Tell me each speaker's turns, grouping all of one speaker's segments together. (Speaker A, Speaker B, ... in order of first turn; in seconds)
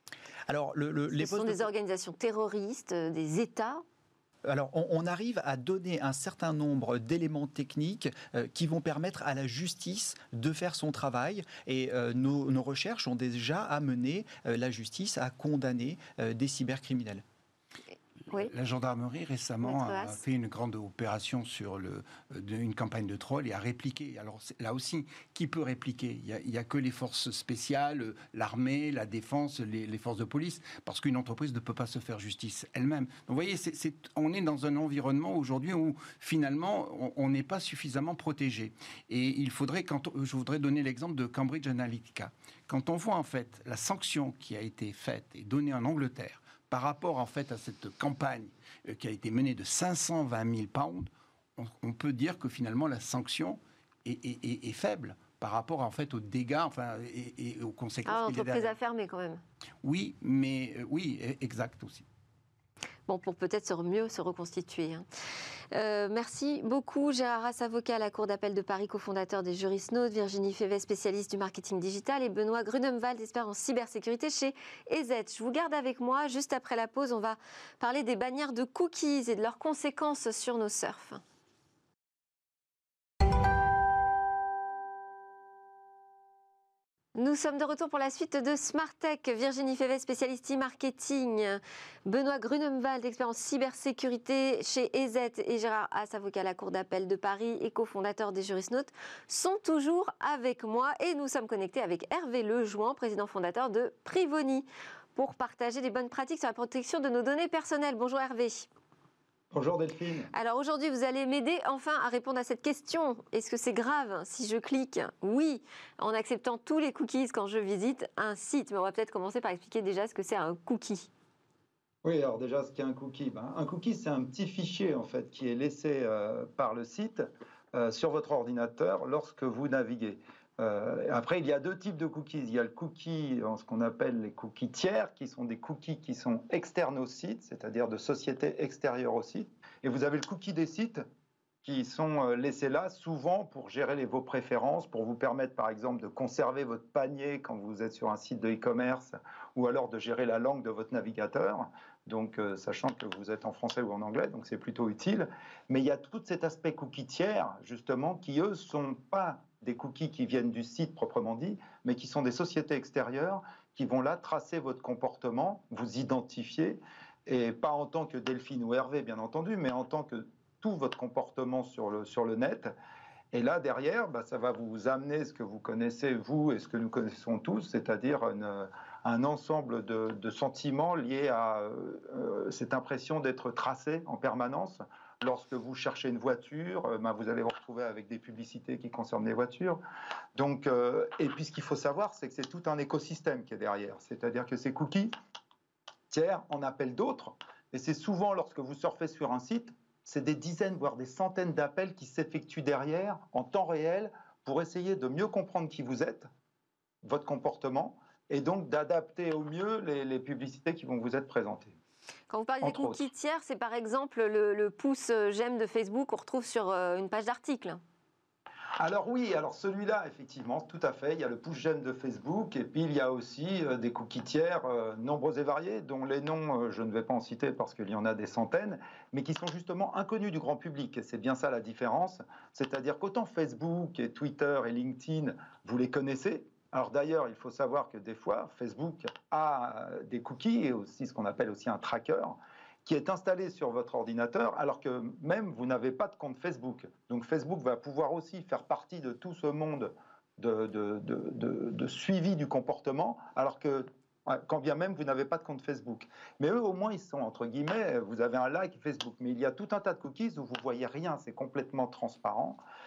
Speaker A: 0.5-1.7, 4.5-17.2
Speaker B: 1.1-3.8, 19.6-20.2, 58.1-59.4, 63.1-65.1, 65.7-81.2, 87.2-108.7, 110.3-121.1, 212.3-217.8
Speaker C: 18.4-58.8, 59.8-62.0
Speaker D: 109.5-110.3, 122.0-141.0, 141.6-172.7, 173.3-189.8, 190.4-195.1, 196.1-206.3, 207.0-211.7, 212.6-213.1, 218.8-262.6